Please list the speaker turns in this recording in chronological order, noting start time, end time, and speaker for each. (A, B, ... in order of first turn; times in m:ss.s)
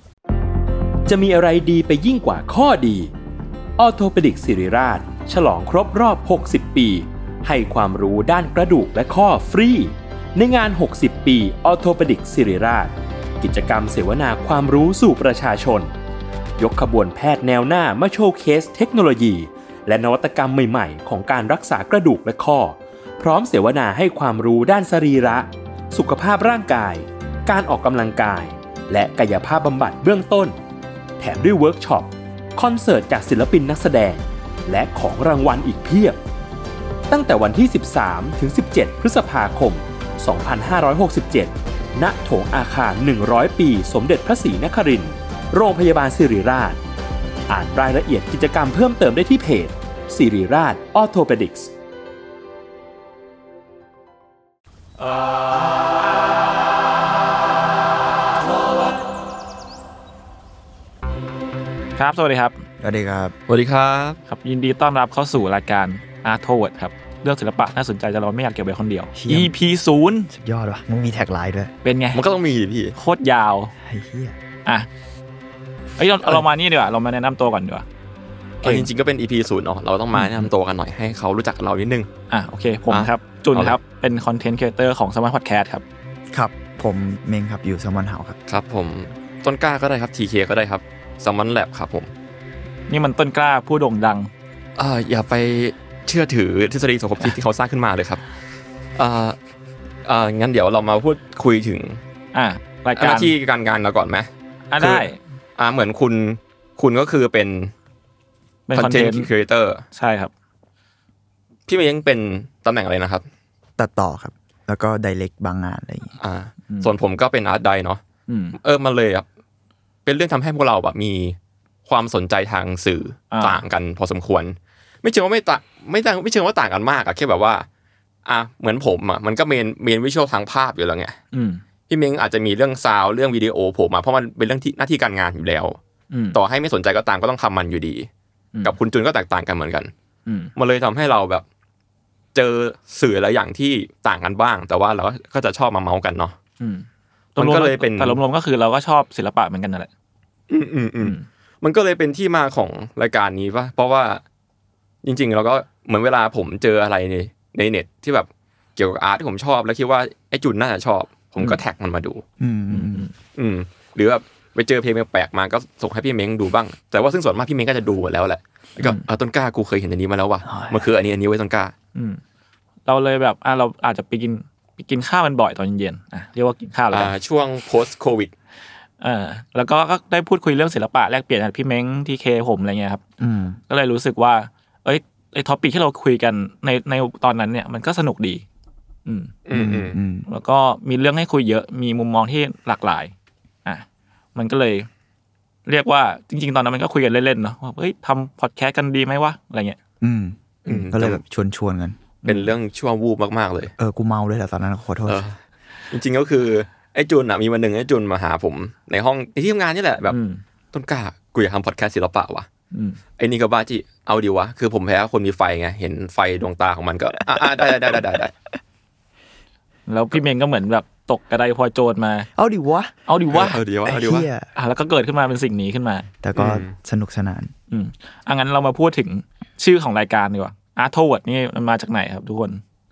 0:01.0-0:03.1 A
0:03.8-0:15.9 A
0:16.6-0:30.6 A
0:31.2-0:36.2 A
0:37.1-0:46.8 A
0:47.5-0:51.7 A
1:02.0-1:02.6 B
1:02.8-1:03.3 C
1:03.5-1:04.2 D
1:04.3-1:10.3 B
1:09.1-1:09.5 C
1:10.3-1:11.7 C
1:11.8-1:12.2 B
1:12.1-1:13.0 D
1:12.9-1:13.7 B
1:13.8-1:14.4 C
1:16.0-1:17.8 B
1:18.6-1:18.9 B
1:18.6-1:22.1 D
1:20.2-1:20.4 C
1:22.3-1:25.8 B
1:22.9-1:23.8 D
1:26.3-1:28.4 C
1:28.5-1:32.1 D
1:32.9-1:34.3 B
1:34.8-1:38.2 D
1:39.0-1:39.4 D
1:40.0-1:42.0 D
1:42.3-1:43.3 B
1:43.0-1:47.7 D
1:44.7-1:45.2 B
1:48.7-1:49.3 B
1:48.7-1:49.8 D
1:49.9-1:50.3 B
1:51.7-1:53.2 D
1:53.8-1:56.2 C
1:56.2-1:58.0 D
1:56.7-1:56.9 B
1:58.3-1:58.6 B
1:58.6-1:59.2 D
2:00.0-2:07.7 D
2:03.3-2:03.6 B
2:08.2-2:11.2 D
2:11.3-2:11.6 B
2:11.9-2:15.8 D
2:16.1-2:16.4 B
2:16.3-2:18.1 D
2:18.6-2:19.9 D
2:20.2-2:20.5 B
2:20.6-2:21.4 D
2:22.3-2:26.4 D
2:26.6-2:29.9 B
2:27.4-2:28.2 D
2:30.5-2:34.2 D
2:31.0-2:31.2 B
2:35.0-2:42.2 D
2:42.4-2:43.1 C
2:42.7-2:43.1 B
2:43.3-2:51.7 D
2:50.4-2:50.9 C
2:51.9-2:52.2 B
2:52.8-2:57.1 B
2:56.9-2:58.3 D
2:59.0-3:03.0 B
3:03.2-3:03.6 C
3:03.7-3:08.4 B
3:09.0-3:09.3 B
3:09.4-3:10.0 D
3:09.5-3:10.3 C
3:10.3-3:13.1 B
3:13.6-3:14.9 B
3:15.6-3:19.8 B
3:20.0-3:22.0 C
3:20.6-3:21.2 D
3:22.2-3:22.5 B
3:22.2-3:23.7 D
3:23.8-3:25.2 C
3:25.1-3:25.4 D
3:25.9-3:30.2 D
3:30.1-3:30.4 B
3:30.7-3:32.5 D
3:32.7-3:33.0 B
3:33.2-3:38.3 D
3:37.3-3:38.0 C
3:39.9-3:42.3 B
3:42.4-3:42.9 C
3:43.1-3:43.6 B
3:43.3-3:44.3 D
3:43.8-3:44.5 C
3:44.5-3:46.1 B
3:46.2-3:47.5 C
3:46.3-3:46.7 D
3:47.7-3:52.6 B